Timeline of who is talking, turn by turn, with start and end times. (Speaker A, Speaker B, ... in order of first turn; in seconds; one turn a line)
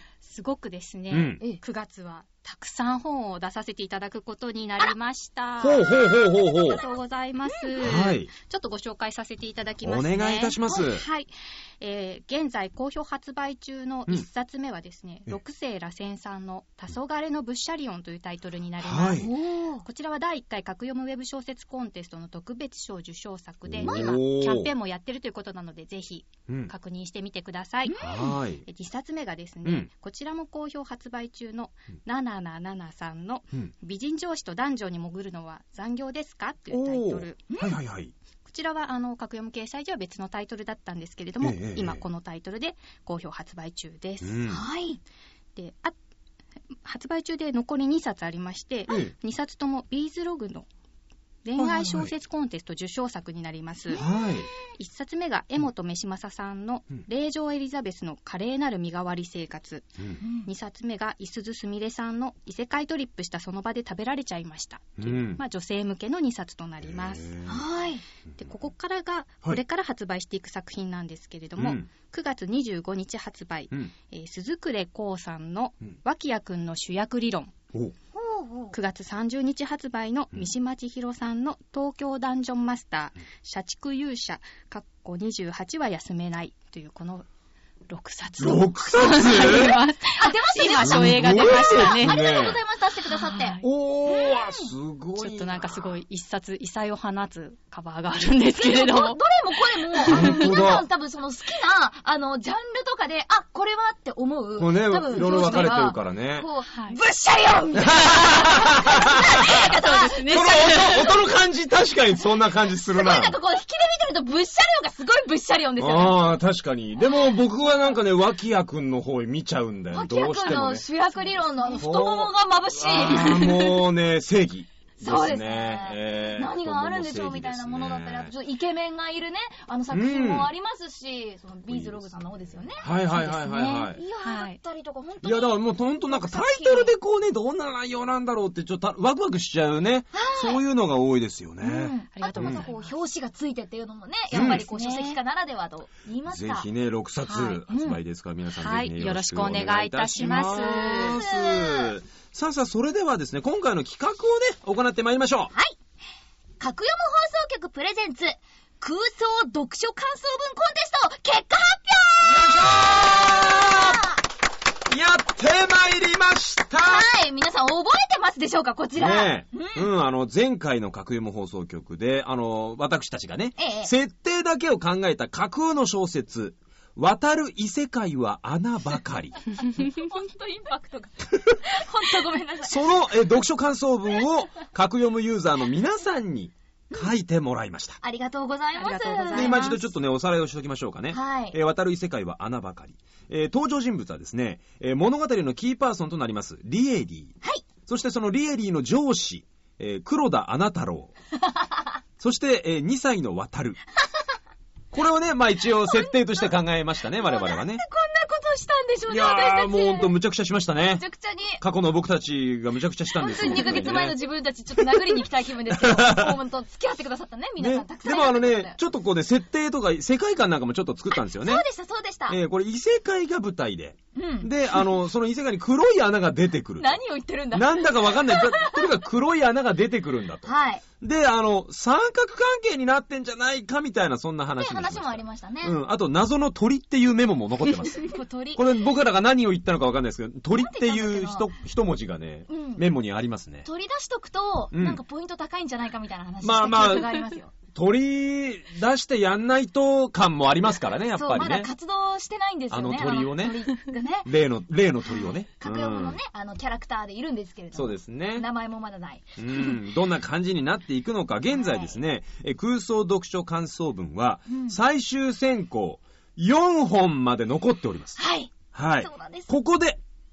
Speaker A: 0.2-6.1
Speaker B: 1.1-1.4
Speaker B: 5.6-6.8
Speaker A: 6.6-19.3
Speaker B: 7.8-8.3
Speaker B: 9.8-11.0
Speaker B: 18.8-19.3
Speaker C: 19.2-19.8
Speaker A: 19.8-28.0
Speaker B: 23.7-24.7
Speaker C: 23.8-24.1
Speaker C: 27.9-28.3
Speaker B: 28.0-28.6
Speaker A: 28.6-37.4
Speaker B: 36.7-38.1
Speaker C: 37.5-37.7
Speaker A: 38.5-44.4
Speaker B: 41.4-42.0
Speaker B: 44.2-44.6
Speaker C: 44.5-45.0
Speaker A: 45.5-45.9
Speaker A: 46.8-50.6
Speaker A: 51.4-54.0
Speaker B: 51.6-52.1
Speaker C: 53.9-54.3
Speaker B: 53.9-54.5
Speaker A: 54.6-67.3
Speaker C: 60.2-60.5
Speaker B: 65.0-65.4
Speaker B: 66.8-67.6
Speaker C: 67.5-68.0
Speaker A: 68.4-77.5
Speaker B: 71.6-71.8
Speaker C: 78.1-78.8
Speaker A: 78.7-87.2
Speaker A: 87.9-92.2
Speaker B: 88.4-89.8
Speaker C: 89.3-94.7
Speaker B: 90.8-92.6
Speaker A: 93.1-93.6
Speaker B: 93.6-96.0
Speaker A: 95.2-99.2
Speaker C: 98.5-110.9
Speaker A: 99.9-100.5
Speaker B: 100.1-100.8
Speaker B: 104.6-106.5
Speaker A: 106.7-107.0
Speaker B: 107.8-109.7
Speaker A: 109.4-111.2
Speaker B: 110.2-113.3
Speaker C: 112.9-116.2
Speaker B: 115.8-120.8
Speaker C: 119.9-123.8
Speaker B: 121.7-128.3
Speaker C: 125.0-136.9
Speaker B: 129.9-130.5
Speaker B: 131.7-132.0
Speaker B: 132.8-134.0
Speaker A: 134.2-134.6
Speaker B: 135.2-142.6
Speaker C: 140.1-140.6
Speaker C: 141.6-146.7
Speaker A: 142.1-142.9
Speaker B: 144.3-144.6
Speaker A: 144.3-145.2
Speaker B: 146.3-155.5
Speaker A: 147.3-147.6
Speaker C: 147.7-148.0
Speaker A: 148.6-151.2
Speaker C: 150.5-151.9
Speaker C: 156.6-164.2
Speaker B: 162.2-164.1
Speaker B: 164.9-167.1
Speaker C: 166.8-169.8
Speaker B: 168.9-179.4
Speaker C: 173.6-173.9
Speaker C: 179.5-182.9
Speaker B: 182.6-188.0
Speaker C: 188.0-189.8
Speaker A: 188.8-189.8
Speaker B: 189.3-197.3
Speaker C: 191.1-191.6
Speaker B: 197.8-201.1
Speaker B: 202.2-203.8
Speaker B: 204.9-207.8
Speaker C: 205.8-206.5
Speaker C: 207.1-210.1
Speaker B: 209.1-211.0
Speaker C: 210.9-211.6
Speaker B: 211.6-214.2
Speaker C: 213.2-218.8
Speaker B: 214.8-216.4
Speaker B: 217.6-221.6
Speaker C: 221.1-222.4
Speaker B: 222.3-226.9
Speaker C: 224.1-224.9
Speaker C: 226.8-228.9
Speaker B: 227.5-230.5
Speaker C: 230.4-230.8
Speaker B: 231.0-243.7
Speaker C: 234.6-235.8
Speaker C: 238.0-238.7
Speaker C: 240.5-241.5
Speaker C: 242.5-242.9
Speaker C: 243.6-247.5
Speaker B: 244.7-245.0
Speaker B: 246.4-247.2
Speaker B: 247.7-251.7
Speaker C: 251.1-254.3
Speaker B: 252.7-253.6
Speaker B: 254.2-256.2
Speaker C: 255.1-259.8
Speaker B: 257.7-258.4
Speaker B: 259.4-268.2
Speaker C: 261.5-261.9
Speaker C: 264.5-264.8
Speaker C: 268.2-269.5
Speaker B: 268.7-270.0